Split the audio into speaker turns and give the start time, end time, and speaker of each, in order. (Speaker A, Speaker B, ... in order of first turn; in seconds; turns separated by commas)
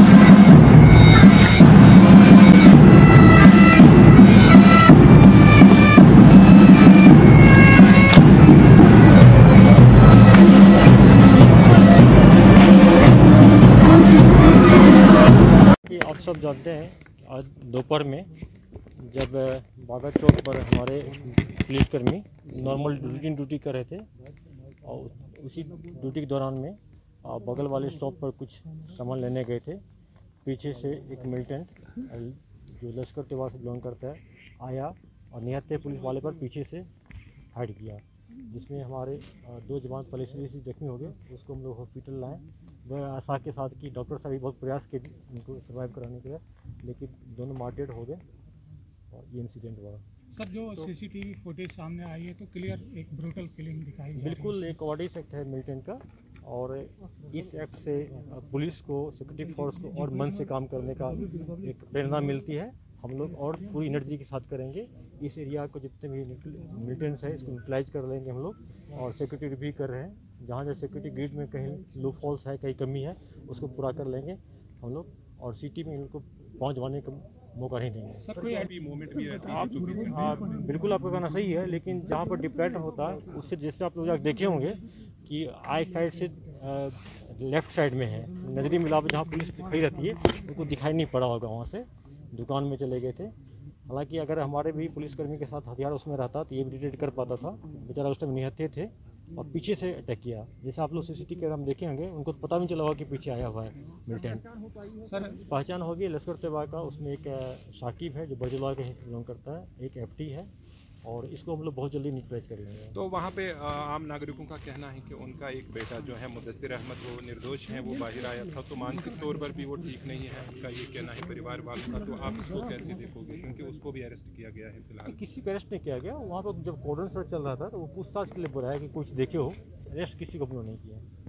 Speaker A: 15.7-18.3, Speaker A: 18.9-24.1, Speaker A: 24.8-29.8, Speaker A: 30.4-36.9, Speaker A: 37.5-48.2, Speaker A: 49.1-50.0, Speaker B: 50.3-54.7, Speaker A: 54.1-78.3, Speaker B: 78.2-78.7, Speaker C: 78.5-80.4, Speaker A: 79.8-93.3, Speaker A: 93.9-104.5, Speaker B: 105.0-105.3, Speaker A: 105.3-110.5, Speaker A: 111.0-113.0, Speaker C: 112.9-125.2, Speaker A: 125.0-131.0